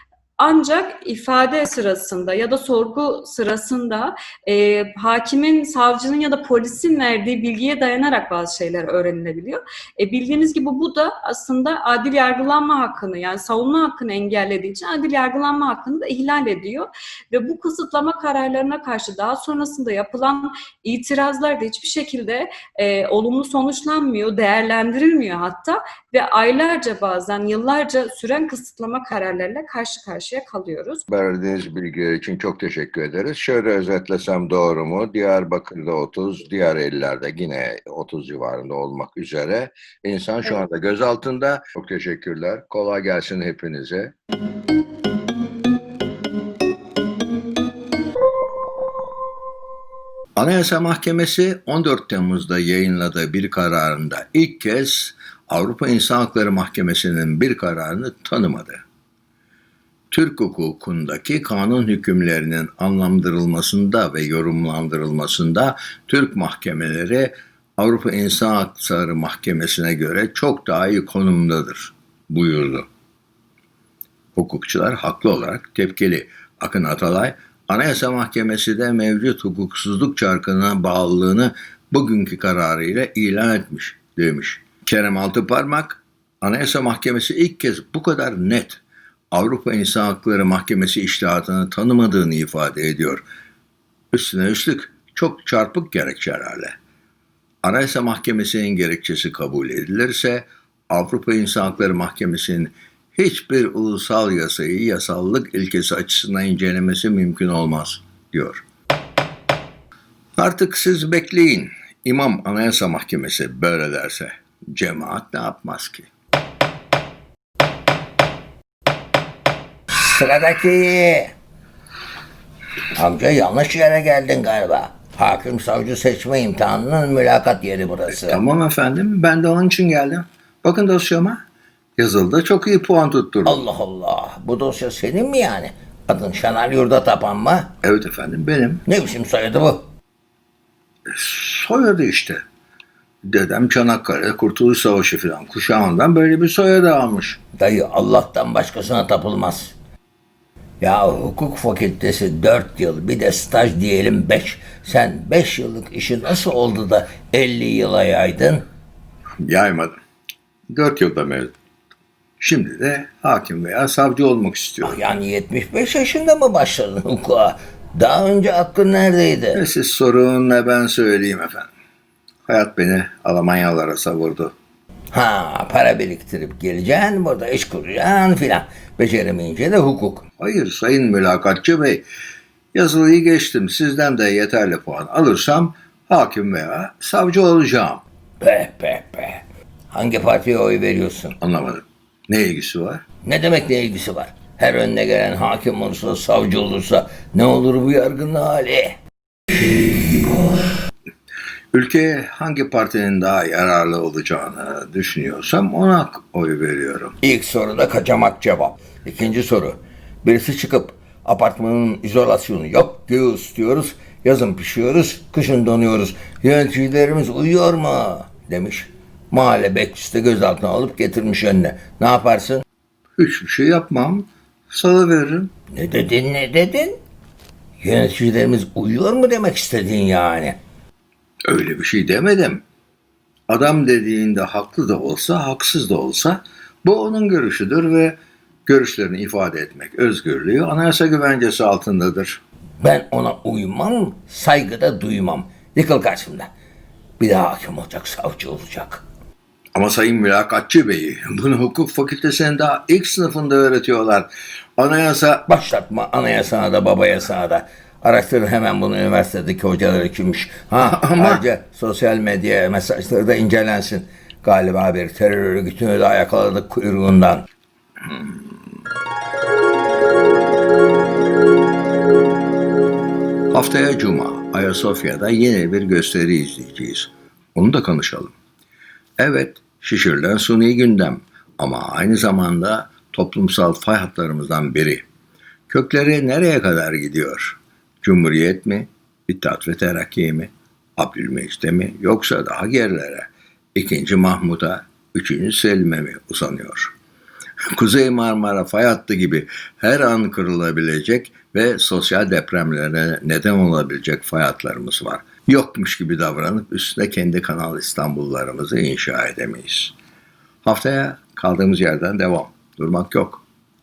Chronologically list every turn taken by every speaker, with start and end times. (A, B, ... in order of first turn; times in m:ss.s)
0:00.4-0:31.0 A
0:31.1-0:44.1 B
0:50.4-0:58.8 B
1:00.1-1:12.9 B
1:14.4-1:33.2 B
1:34.1-1:36.8 B
1:37.6-1:48.6 B
1:50.4-1:56.1 B
1:59.9-2:01.3 C
2:02.9-2:08.4 C
2:08.1-2:11.4 B
2:12.0-2:13.6 B
2:13.4-2:17.7 C
2:17.8-2:18.8 B
2:18.9-2:19.9 C
2:21.1-2:22.4 B
2:23.2-2:27.4 B
2:27.5-2:29.7 C
2:30.8-2:38.7 C
2:39.4-2:40.0 B
2:40.7-2:41.5 B
2:42.4-2:45.0 B
2:44.8-2:49.6 C
2:49.6-2:51.7 B
2:52.4-2:54.5 B
2:55.1-3:00.3 C
3:00.3-3:02.1 B
3:02.7-3:08.0 B
3:08.4-3:11.4 C
3:11.4-3:13.1 B
3:13.2-3:19.0 C
3:19.5-3:20.6 C
3:21.7-3:27.2 B
3:27.2-3:42.6 C
3:43.2-3:45.5 B
3:45.7-3:47.0 C
3:47.8-3:50.6 C
3:51.5-3:52.6 B
3:53.5-4:02.4 B
4:02.8-4:06.5 C
4:07.2-4:09.0 C
4:09.8-4:15.4 B
4:15.4-4:27.4 C
4:20.8-4:21.4 B
4:33.5-4:38.3 B
4:39.2-4:45.0 B
4:45.7-4:57.0 B
4:57.7-5:09.9 B
5:10.6-5:13.4 B